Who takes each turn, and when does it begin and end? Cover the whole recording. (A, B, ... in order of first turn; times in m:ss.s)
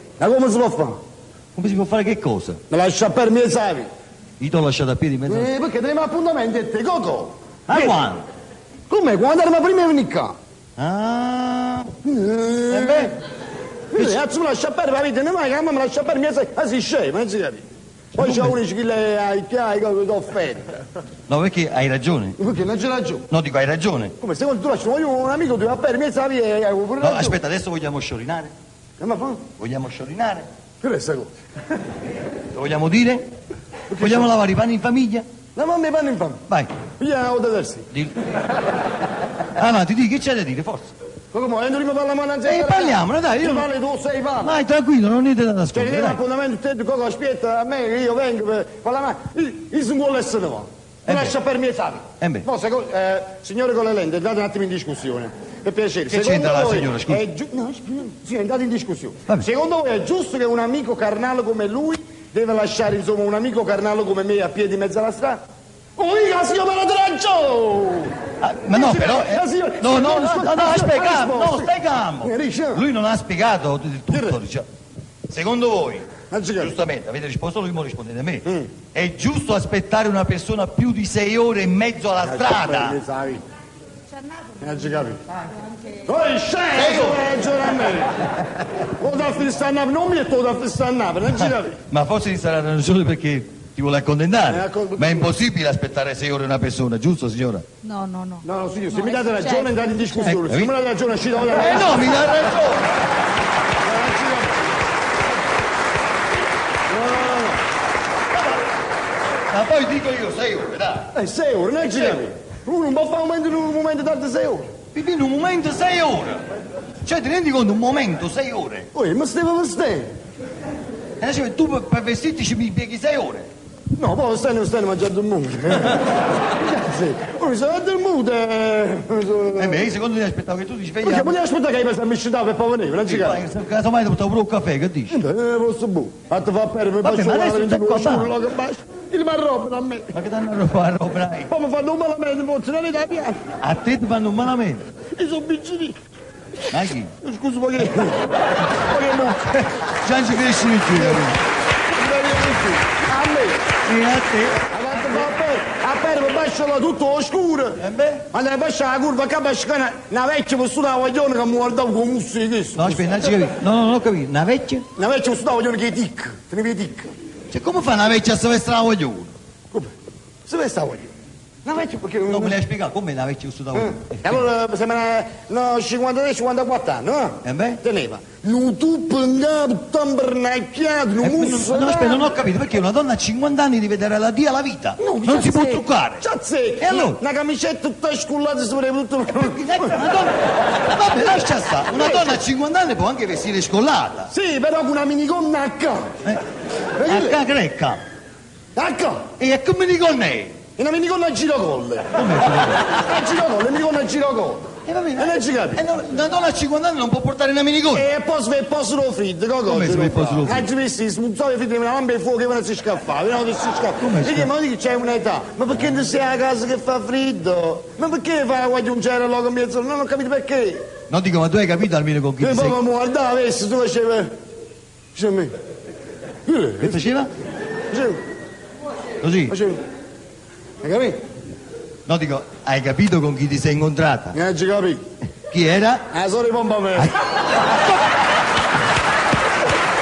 0:00.2-0:01.0 A
0:01.5-0:02.6 B
0:02.7-0:03.9 A
0:04.4-0:05.5 B
0:05.3-0:08.0 A
0:07.7-0:08.2 B
0:08.9-0:10.3 A
0:10.8-0:11.9 B
0:12.0-0:13.1 A
0:12.7-0:13.1 B
0:13.9-0:17.6 A
0:13.9-0:14.2 B
0:18.1-0:18.6 B
0:18.2-0:20.7 A
0:21.3-0:22.4 B
0:22.4-0:23.2 A
0:23.3-0:24.1 B
0:24.2-0:27.4 A
0:27.0-0:28.5 B
0:29.0-0:29.4 A
0:29.6-0:30.5 B
0:30.8-0:31.3 A
0:32.5-0:33.2 B
0:33.9-0:34.3 A
0:34.0-0:35.2 B
0:35.5-0:36.4 A
0:36.5-0:36.7 B
0:37.0-0:37.9 A
0:39.5-0:40.9 B
0:41.3-0:44.6 A
0:42.4-0:43.7 B
0:44.4-0:46.2 B
0:45.7-1:05.4 A
0:51.0-0:51.3 B
0:52.2-0:52.5 B
0:56.1-0:57.2 B
1:06.0-1:08.1 A
1:08.4-1:14.6 B
1:08.7-1:12.8 A
1:14.1-1:14.4 A
1:15.3-1:23.0 B
1:16.3-1:16.7 A
1:18.4-1:18.7 A
1:22.2-1:23.4 A
1:24.6-1:25.2 A
1:26.0-1:28.2 A
1:26.7-1:27.3 B
1:28.8-1:31.8 A
1:31.3-1:37.6 B
1:34.5-1:35.3 A
1:37.8-1:39.8 C
1:38.4-1:42.2 A
1:40.2-1:40.7 B
1:41.5-1:43.0 B
1:43.8-1:44.6 A
1:46.9-1:47.6 A
1:49.5-1:51.1 B
1:51.1-1:54.7 A
1:54.9-1:56.4 B
1:57.0-1:58.9 B
1:58.9-2:00.1 A
2:01.2-2:03.5 B
2:04.0-2:09.9 A
2:09.6-2:11.4 B
2:11.0-2:13.4 A
2:13.0-2:15.2 B
2:15.1-2:20.1 A
2:17.0-2:18.3 B
2:20.1-2:21.5 B
2:21.5-2:23.4 A
2:23.6-2:24.8 B
2:25.1-2:26.0 A
2:26.7-2:27.1 B
2:27.2-2:29.7 A
2:29.8-2:31.4 B
2:30.9-2:31.3 A
2:31.9-2:33.7 A
2:33.8-2:34.6 B
2:34.7-2:37.8 A
2:37.8-2:38.2 B
2:38.3-2:43.3 A
2:42.8-2:44.8 B
2:45.0-2:47.1 A
2:47.5-2:49.3 B
2:50.4-2:51.0 A
2:51.6-2:52.6 A
2:52.3-2:54.5 B
2:53.7-3:02.3 A
2:57.4-2:57.8 B
3:01.2-3:06.2 B
3:05.0-3:10.0 A
3:06.8-3:07.2 B
3:09.3-3:14.3 B
3:11.9-3:12.4 A
3:14.3-3:16.1 A
3:17.0-3:17.4 A
3:17.0-3:18.0 B
3:18.8-3:19.2 A
3:19.4-3:20.5 B
3:20.8-3:22.2 A
3:22.1-3:22.8 B
3:22.8-3:24.6 A
3:24.8-3:28.1 B
3:25.2-3:25.8 A
3:27.9-3:40.8 A
3:29.7-3:30.7 B
3:34.0-3:34.5 B
3:41.1-3:42.8 B
3:42.4-3:44.3 A
3:45.1-3:45.5 A
3:46.4-3:47.0 A
3:46.8-3:47.3 B
3:47.9-3:48.2 A
3:49.2-3:49.5 B
3:49.5-3:49.8 A
3:50.8-3:51.2 A
3:52.0-3:54.4 B
3:54.3-3:55.0 A
3:55.5-3:56.1 B
3:56.1-3:57.1 A